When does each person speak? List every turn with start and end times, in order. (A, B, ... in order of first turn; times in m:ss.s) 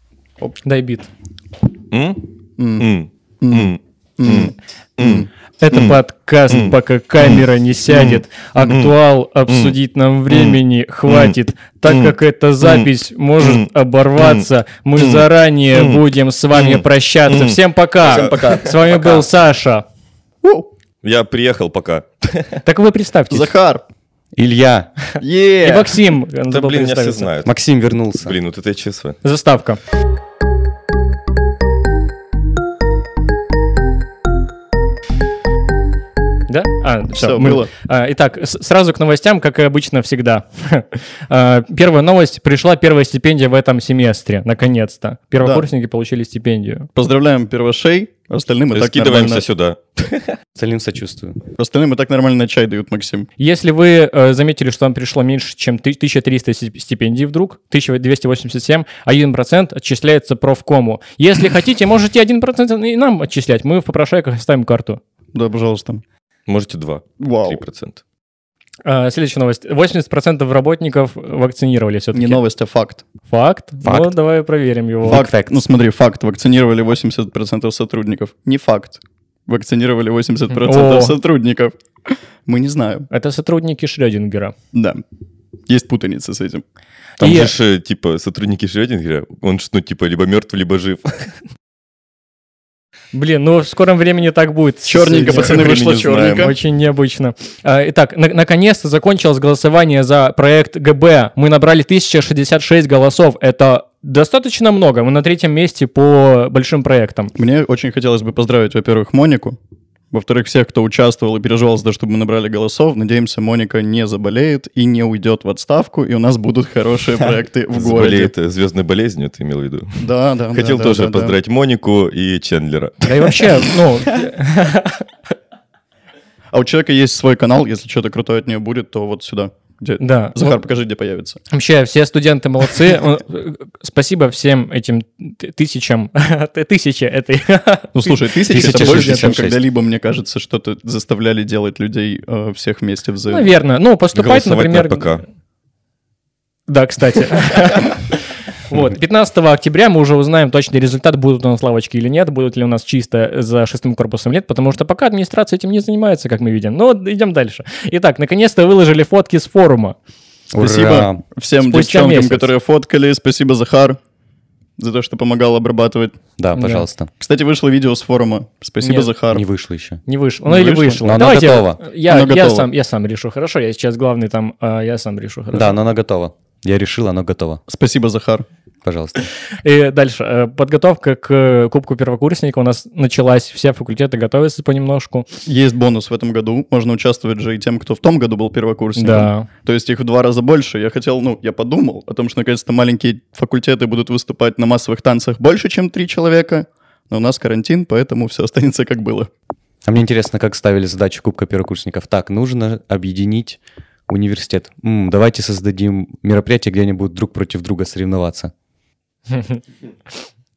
0:00.6-0:01.1 A
0:01.9-0:02.2 B
0:02.6-0:02.9 C
0:02.8-0:06.0 B
0:03.4-0:05.3 C
0:05.6-0:19.8 A
0:06.5-0:08.9 B
0:09.5-0:09.8 B
0:10.3-0:16.0 B
0:16.5-0:19.2 B
0:18.0-0:18.9 C
0:20.4-0:20.7 C
0:21.0-0:22.6 B
0:22.6-0:23.5 A
0:23.3-0:23.8 C
0:24.4-0:24.9 D
0:25.2-0:26.0 C
0:25.6-0:27.3 A
0:26.5-0:27.5 B
0:27.4-0:28.4 D
0:28.2-0:29.2 B
0:29.2-0:29.8 A
0:36.5-0:46.9 A
0:37.2-0:37.7 C
0:45.4-0:45.7 C
0:46.9-0:49.4 C
0:48.7-0:50.4 B
0:50.6-0:51.4 D
0:51.6-0:53.3 C
0:53.4-1:05.0 A
1:05.3-1:06.0 C
1:06.5-1:08.0 B
1:07.2-1:07.6 C
1:08.8-1:12.4 A
1:12.1-1:13.0 C
1:13.3-1:15.3 A
1:13.8-1:14.1 D
1:15.0-1:15.6 D
1:15.0-1:21.7 C
1:20.5-1:21.2 A
1:22.4-1:23.1 C
1:23.1-1:24.5 A
1:24.7-1:25.0 C
1:25.7-1:26.6 C
1:27.2-1:27.5 A
1:27.2-1:31.3 B
1:33.1-1:35.8 A
1:34.8-1:36.5 C
1:35.2-1:36.5 B
1:36.3-1:47.3 A
1:47.4-1:49.6 C
1:50.1-1:58.3 C
1:57.7-2:03.7 B
2:00.0-2:01.4 C
2:03.0-2:05.0 A
2:06.5-2:11.4 C
2:10.0-2:10.6 A
2:11.5-2:19.4 A
2:17.9-2:23.6 C
2:18.5-2:19.6 D
2:23.3-2:25.2 A
2:24.1-2:25.2 B
2:26.7-2:28.1 A
2:28.7-2:40.0 A
2:40.5-2:41.2 D
2:40.6-2:44.0 C
2:41.6-2:42.5 A
2:44.8-2:46.2 C
2:46.4-2:47.1 D
2:46.5-2:46.9 A
2:47.2-2:49.4 C
2:48.8-2:49.1 A
2:49.3-2:50.0 D
2:50.0-2:55.7 A
2:50.4-2:51.1 C
2:51.0-2:51.8 D
2:52.0-2:52.7 C
2:55.5-2:57.6 D
2:57.7-2:58.4 C
2:58.8-2:59.2 D
2:59.2-3:05.3 A
3:05.4-3:19.3 C
3:09.0-3:09.5 A
3:19.8-3:28.5 D
3:29.3-3:29.6 A